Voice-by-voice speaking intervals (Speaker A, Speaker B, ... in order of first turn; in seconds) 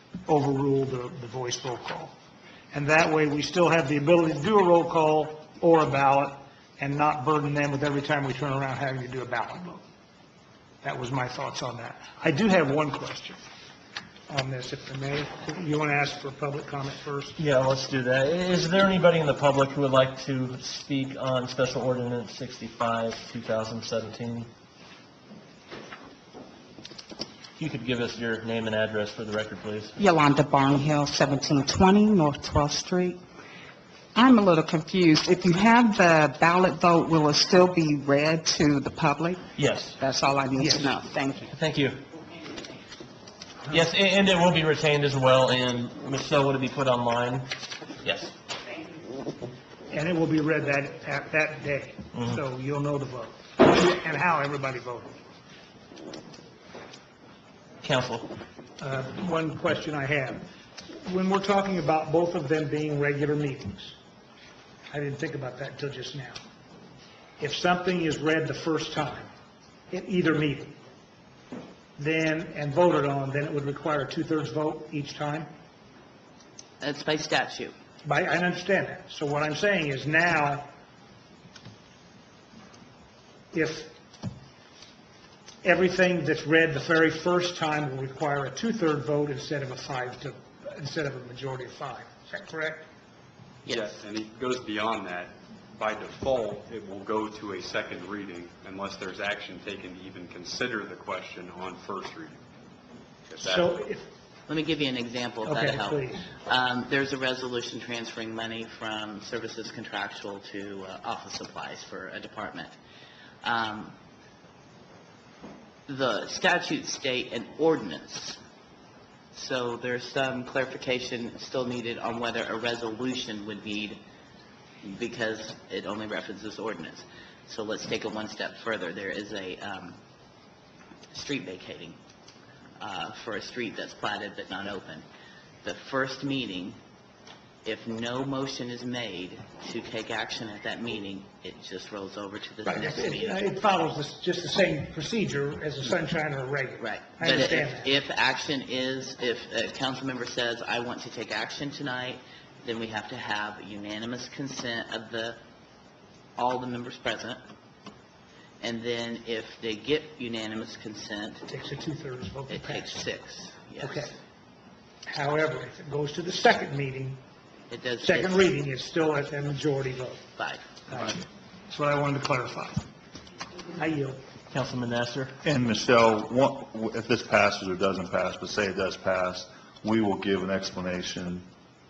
Speaker A: 0.3-2.1, 2.7-9.8, 10.8-13.4, 14.3-17.4, 40.6-40.9, 49.9-55.1, 58.8-64.0, 64.9-66.4, 67.4-69.3, 69.9-70.8, 72.0-75.5, 78.0-80.7, 83.5-83.9, 85.6-92.9, 103.4-104.1, 105.4-106.3, 142.7-147.9, 161.5-163.1, 163.8-164.1, 165.1-167.2, 168.0-170.2, 170.9-172.8, 173.8-174.2
Speaker B: 17.4-24.5, 27.6-29.9, 39.5-40.0, 41.5-42.0, 43.7-47.5, 48.0-48.3, 57.8-58.3, 174.5-175.3
Speaker C: 30.0-33.2, 34.1-39.4, 40.0-41.5
Speaker D: 76.8-77.7, 93.6-93.9, 104.5-112.7, 113.4-113.9, 115.9-118.4, 119.3-124.0, 124.8-130.0, 131.1-132.0, 132.8-135.0, 135.6-136.8, 137.7-143.5, 146.8-155.4, 156.4-157.4, 158.6-161.4, 162.5-164.2, 167.7-168.5, 170.4-170.7
Speaker E: 93.7-102.4, 103.3-103.7
Speaker F: 175.4-181.5